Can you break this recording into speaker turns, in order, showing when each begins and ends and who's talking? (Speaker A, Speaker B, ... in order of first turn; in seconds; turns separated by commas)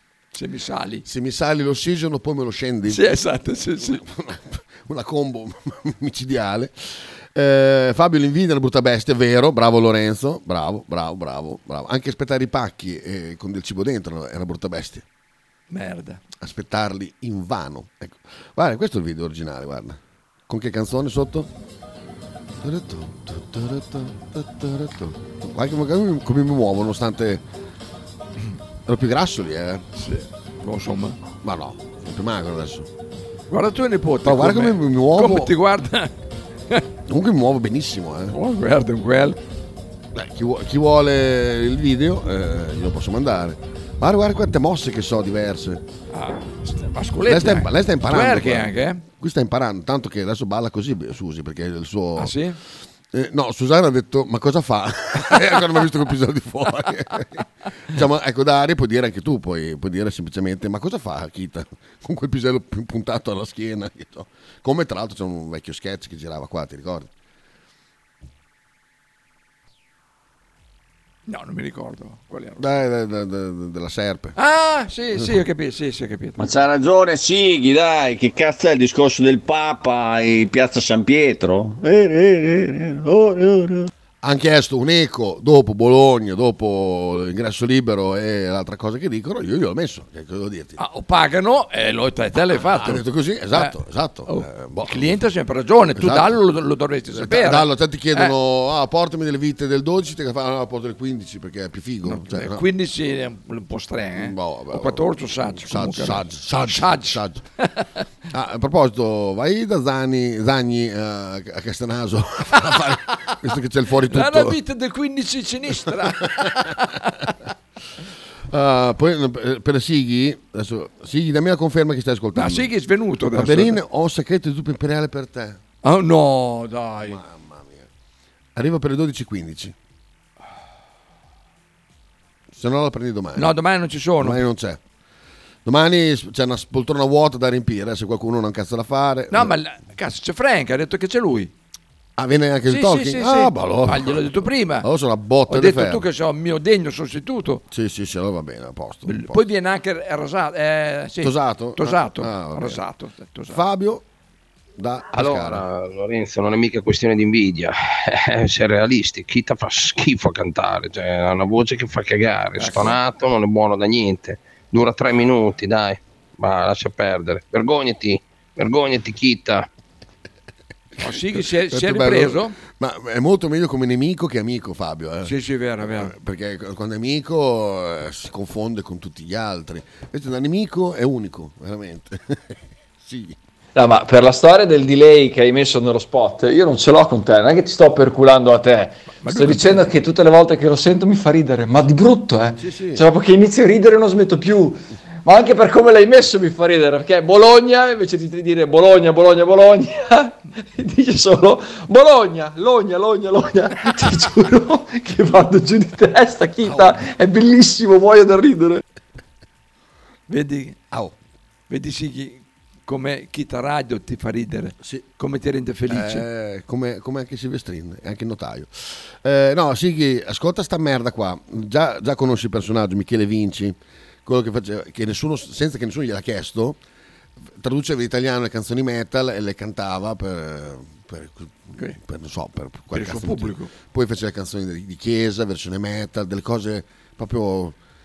Speaker A: 0.3-1.1, Speaker B: 1.1-3.0, Speaker A: 2.9-4.0, Speaker B: 3.8-15.1, Speaker A: 15.7-16.2, Speaker B: 16.4-21.5, Speaker B: 22.6-27.4, Speaker B: 28.9-29.8, Speaker A: 30.0-31.2, Speaker B: 31.4-32.9, Speaker A: 33.5-36.1, Speaker B: 34.2-35.5, Speaker B: 37.1-38.4, Speaker A: 38.3-39.4, Speaker B: 40.1-45.8, Speaker A: 46.1-49.0, Speaker B: 47.2-52.4, Speaker A: 52.2-52.6, Speaker B: 53.1-67.1, Speaker A: 71.3-72.7, Speaker B: 72.6-74.3, Speaker A: 74.4-76.4, Speaker C: 76.4-83.9, Speaker B: 84.2-90.8, Speaker A: 90.8-93.8, Speaker B: 92.5-95.1, Speaker A: 94.3-98.3, Speaker B: 95.9-96.4, Speaker B: 97.1-102.6, Speaker A: 102.0-107.9, Speaker B: 104.2-107.4, Speaker B: 108.3-114.6, Speaker A: 114.1-117.3, Speaker B: 115.8-116.7, Speaker B: 118.5-122.7, Speaker A: 122.3-123.8, Speaker B: 123.3-125.6, Speaker A: 125.8-127.2, Speaker B: 127.0-127.9, Speaker B: 128.6-129.8, Speaker B: 132.5-133.5, Speaker A: 133.4-134.4, Speaker B: 134.2-134.8, Speaker B: 135.7-139.5, Speaker A: 139.3-141.5, Speaker B: 142.2-146.1, Speaker A: 142.7-144.9, Speaker A: 145.5-147.6, Speaker B: 147.7-149.4, Speaker A: 149.1-153.6, Speaker B: 151.2-152.8, Speaker B: 153.5-154.0, Speaker B: 154.8-155.6, Speaker D: 155.1-169.7, Speaker A: 162.6-163.0, Speaker A: 171.0-172.6, Speaker B: 171.3-183.4, Speaker A: 175.2-176.1, Speaker E: 183.8-208.8, Speaker A: 189.2-189.9, Speaker B: 192.6-193.0, Speaker B: 206.6-207.0, Speaker A: 210.3-210.8, Speaker A: 211.7-216.3, Speaker B: 215.9-226.8, Speaker B: 227.6-237.8, Speaker A: 232.9-233.7